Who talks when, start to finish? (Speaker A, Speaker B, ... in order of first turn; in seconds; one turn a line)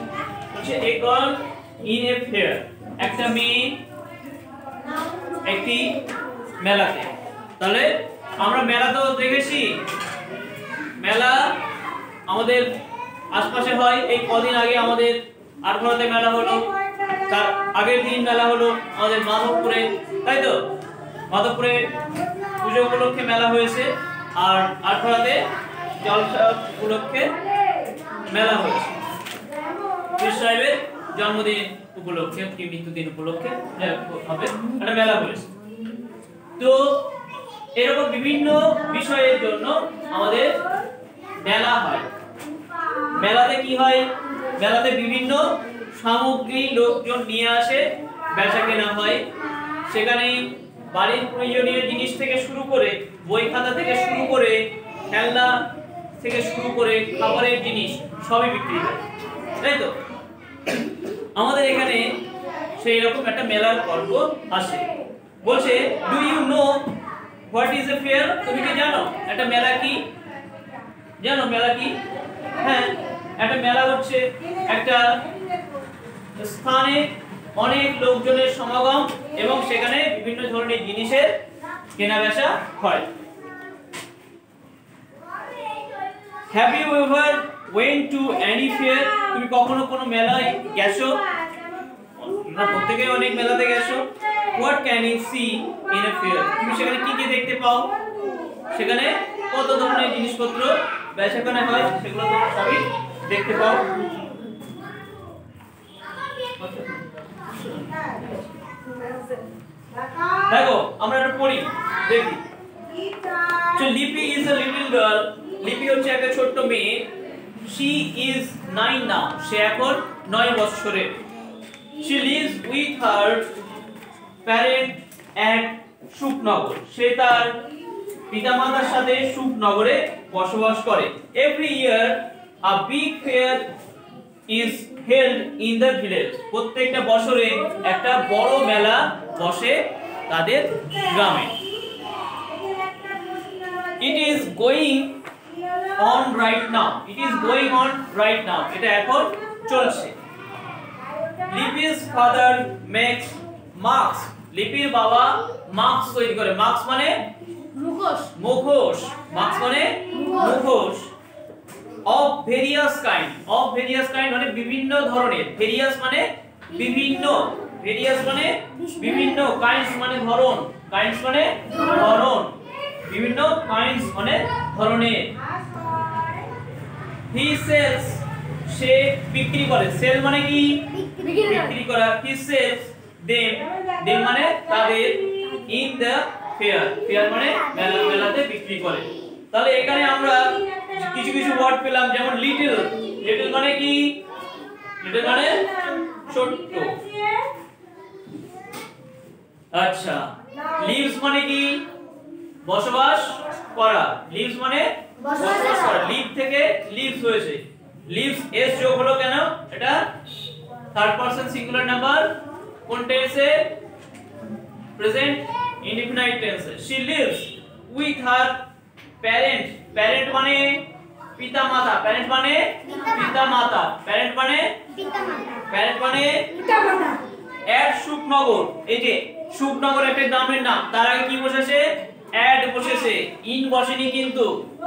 Speaker A: 0.5-3.8
Speaker A: 5.5-6.0
Speaker A: 6.6-9.8
Speaker A: 11.0-11.6
Speaker A: 12.3-12.7
Speaker A: 13.3-16.7
Speaker A: 17.2-20.6
Speaker A: 21.3-21.9
Speaker A: 22.6-25.5
Speaker A: 26.0-27.3
Speaker A: 28.3-28.9
Speaker A: 30.2-35.5
Speaker A: 36.6-37.1
Speaker A: 37.7-40.6
Speaker A: 41.4-42.1
Speaker A: 43.1-49.2
Speaker A: 49.9-55.6
Speaker A: 56.2-59.0
Speaker A: 59.6-60.0
Speaker A: 61.4-62.1
Speaker A: 62.8-64.9
Speaker A: 65.4-66.9
Speaker A: 67.5-70.0
Speaker A: 71.2-72.0
Speaker A: 72.6-75.2
Speaker A: 76.4-81.3
Speaker A: 82.0-83.1
Speaker A: 86.5-91.2
Speaker A: 92.2-97.9
Speaker A: 98.7-103.9
Speaker A: 106.6-108.3
Speaker A: 110.5-112.4
Speaker A: 113.7-117.1
Speaker A: 117.7-121.1
Speaker A: 122.0-123.5
Speaker A: 124.5-127.6
Speaker A: 128.3-133.7
Speaker A: 134.5-141.6
Speaker A: 144.0-145.2
Speaker A: 146.0-150.2
Speaker A: 151.5-157.2
Speaker B: 157.7-158.3
Speaker A: 158.3-161.1
Speaker B: 160.1-160.6
Speaker A: 162.1-172.6
Speaker A: 173.1-175.3
Speaker A: 177.3-194.2
Speaker B: 181.0-181.7
Speaker A: 195.0-197.0
Speaker A: 199.7-201.8
Speaker A: 202.7-210.1
Speaker A: 210.9-212.3
Speaker A: 212.9-213.7
Speaker A: 215.0-218.6
Speaker A: 219.2-220.8
Speaker A: 221.4-224.8
Speaker B: 225.1-225.6
Speaker A: 225.7-226.5
Speaker B: 226.7-227.2
Speaker A: 227.7-231.9
Speaker A: 232.4-234.5